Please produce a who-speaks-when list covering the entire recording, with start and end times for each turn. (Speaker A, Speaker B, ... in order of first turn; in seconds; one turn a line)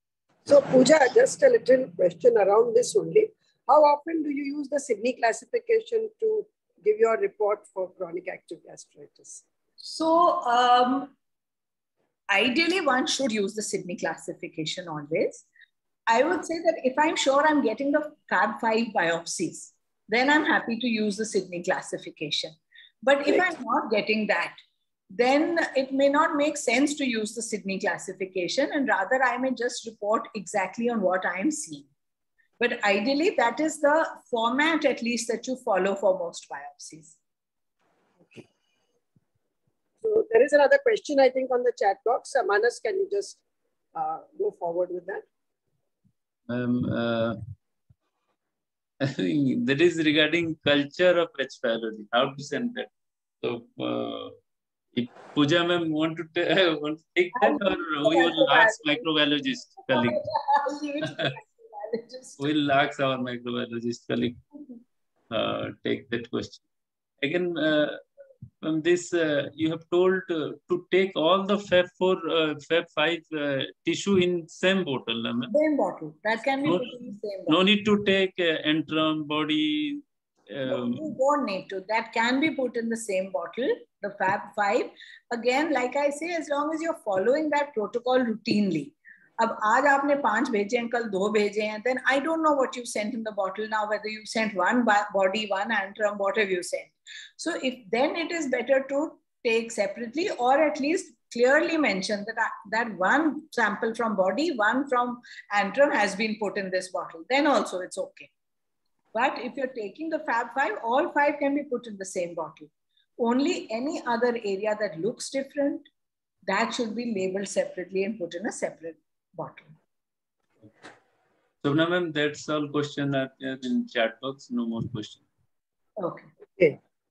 Speaker A: 0.5-9.4
Speaker B: 9.8-11.1
Speaker B: 12.3-15.4
Speaker B: 16.1-24.6
Speaker B: 25.1-31.9
Speaker B: 32.6-37.2
Speaker A: 38.2-38.4
Speaker A: 40.0-43.4
Speaker A: 43.9-45.2
Speaker C: 46.5-47.4
Speaker C: 49.0-52.9
Speaker C: 53.4-54.4
Speaker C: 54.9-60.2
Speaker B: 57.4-58.8
Speaker B: 59.9-62.4
Speaker C: 61.0-61.3
Speaker C: 62.4-64.4
Speaker C: 65.3-66.6
Speaker C: 67.2-68.0
Speaker C: 68.6-75.5
Speaker B: 75.5-77.6
Speaker C: 76.6-76.9
Speaker C: 77.5-81.0
Speaker B: 80.7-108.3
Speaker B: 109.1-115.8
Speaker B: 116.5-119.7
Speaker C: 121.6-125.2
Speaker B: 126.0-126.3